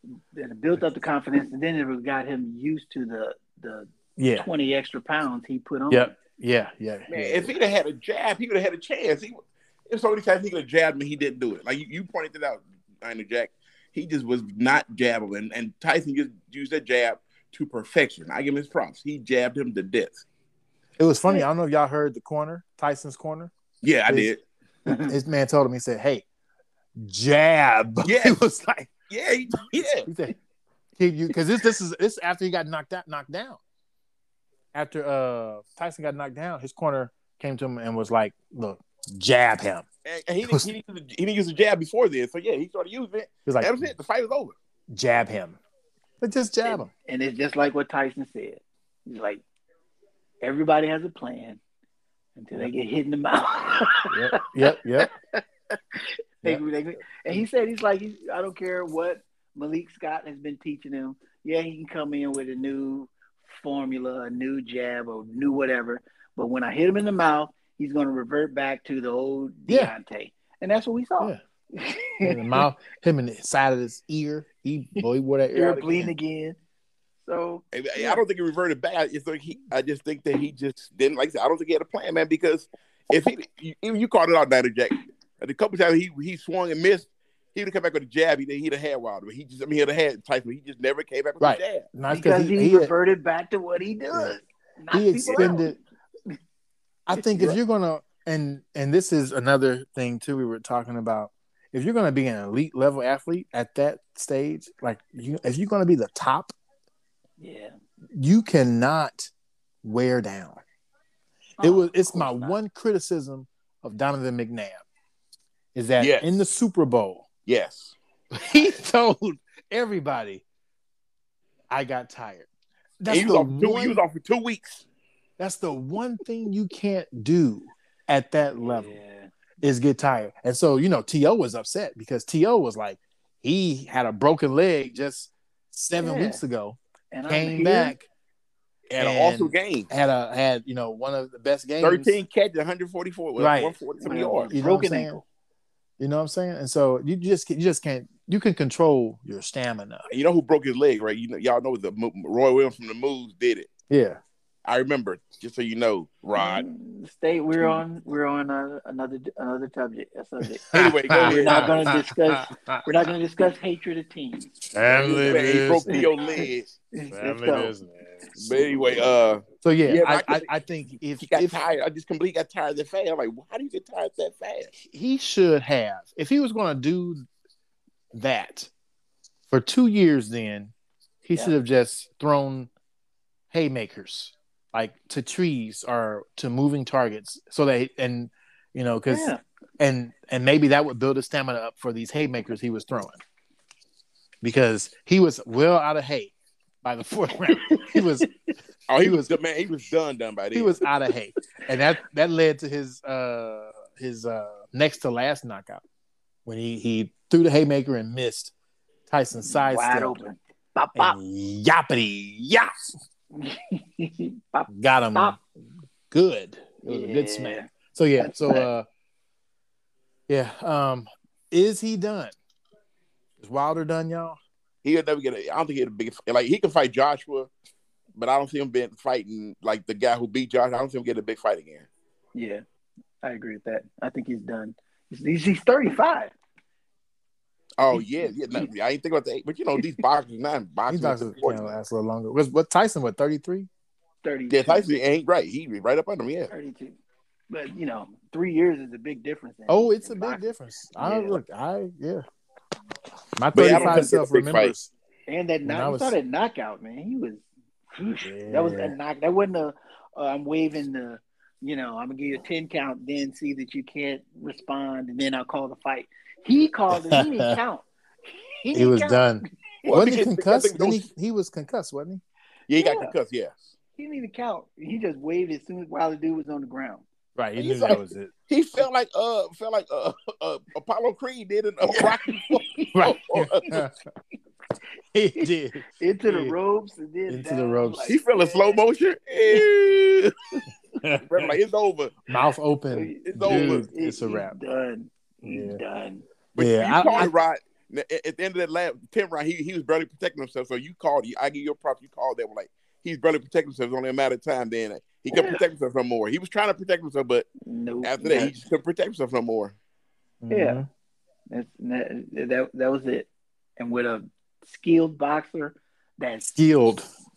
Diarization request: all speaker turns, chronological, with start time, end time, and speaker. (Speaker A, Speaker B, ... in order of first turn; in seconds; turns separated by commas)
Speaker A: 0.3-6.1, Speaker B: 4.2-4.5, Speaker B: 5.9-7.5, Speaker C: 7.1-20.2, Speaker B: 21.0-23.5, Speaker C: 23.8-24.4, Speaker A: 24.9-25.1, Speaker B: 25.1-26.2, Speaker B: 27.0-28.9, Speaker C: 28.0-28.4, Speaker C: 29.1-30.1, Speaker B: 30.1-30.4, Speaker B: 31.0-33.6, Speaker B: 34.7-39.9, Speaker C: 40.0-44.5, Speaker B: 43.5-43.9, Speaker B: 44.9-45.6, Speaker B: 46.2-46.9, Speaker A: 46.6-49.4, Speaker A: 50.4-51.6, Speaker A: 52.4-72.7, Speaker B: 54.1-55.1, Speaker B: 69.7-69.9, Speaker B: 72.2-76.1, Speaker A: 75.5-76.6, Speaker A: 77.2-78.2, Speaker C: 77.7-91.9, Speaker B: 91.4-92.9, Speaker A: 92.1-95.8, Speaker B: 94.9-95.8, Speaker C: 95.2-95.6, Speaker B: 97.1-106.5, Speaker A: 107.4-107.7, Speaker B: 108.2-109.3, Speaker B: 109.8-110.6, Speaker A: 111.6-112.6, Speaker B: 111.6-114.8, Speaker B: 115.7-117.3, Speaker C: 116.0-116.3, Speaker C: 117.5-118.0, Speaker B: 118.3-120.4, Speaker B: 121.7-122.5, Speaker B: 123.0-124.0, Speaker C: 123.1-124.8, Speaker B: 125.4-128.9, Speaker A: 128.6-129.3, Speaker B: 129.6-138.1, Speaker A: 136.0-136.4, Speaker A: 137.1-137.9, Speaker C: 138.9-139.9, Speaker B: 139.0-142.1, Speaker C: 141.8-144.5, Speaker B: 143.4-145.2, Speaker A: 144.0-145.2, Speaker B: 146.0-150.1, Speaker C: 150.1-153.7, Speaker B: 153.9-154.2, Speaker C: 154.7-156.7, Speaker A: 156.3-160.7, Speaker B: 160.7-162.8, Speaker C: 160.7-161.8, Speaker A: 161.2-167.7, Speaker B: 164.7-166.1, Speaker C: 164.9-166.7, Speaker B: 167.1-169.0, Speaker C: 168.4-170.5, Speaker B: 169.6-171.6, Speaker C: 171.2-174.7, Speaker B: 174.8-177.2, Speaker B: 178.1-178.7, Speaker B: 179.5-180.7, Speaker B: 181.2-182.7, Speaker B: 183.5-193.2, Speaker A: 189.1-189.4, Speaker B: 194.4-198.3, Speaker A: 197.5-198.3, Speaker C: 198.9-200.8, Speaker B: 199.0-199.3, Speaker B: 200.5-205.8, Speaker B: 206.5-208.5, Speaker B: 209.1-210.2, Speaker A: 209.4-211.2, Speaker B: 210.9-212.9, Speaker A: 213.3-215.4, Speaker B: 214.7-215.4, Speaker B: 216.1-218.9, Speaker A: 216.8-218.7, Speaker B: 220.3-222.3, Speaker B: 223.4-224.4, Speaker C: 224.8-227.5, Speaker C: 228.2-231.9, Speaker A: 232.3-232.6, Speaker A: 233.2-236.3, Speaker C: 237.8-241.8, Speaker B: 240.9-243.7, Speaker A: 244.2-244.9, Speaker C: 244.5-246.5, Speaker A: 246.5-247.0, Speaker A: 247.5-250.5, Speaker B: 249.7-252.2, Speaker A: 251.0-251.4, Speaker B: 253.4-254.9, Speaker C: 253.5-254.7, Speaker A: 253.7-254.1, Speaker A: 255.3-269.3, Speaker B: 255.7-256.2, Speaker B: 258.2-258.9, Speaker B: 266.9-267.6, Speaker B: 268.7-272.2, Speaker C: 269.8-271.0, Speaker C: 272.7-273.6, Speaker A: 272.8-273.1, Speaker A: 274.0-277.1, Speaker B: 277.4-278.8, Speaker C: 277.6-283.7, Speaker A: 281.9-283.0, Speaker B: 282.9-283.9, Speaker B: 285.1-286.6, Speaker A: 285.4-288.8, Speaker B: 287.3-288.1, Speaker C: 288.1-290.6, Speaker B: 291.0-291.6, Speaker C: 291.2-292.2, Speaker B: 292.3-294.6, Speaker A: 292.9-296.2, Speaker C: 293.3-293.9, Speaker B: 295.4-295.8, Speaker C: 296.6-307.5, Speaker B: 296.6-297.3, Speaker A: 305.3-305.6, Speaker A: 307.6-308.6, Speaker C: 308.0-309.8, Speaker B: 310.4-310.9, Speaker A: 310.5-310.8, Speaker A: 311.5-316.5, Speaker B: 316.4-317.1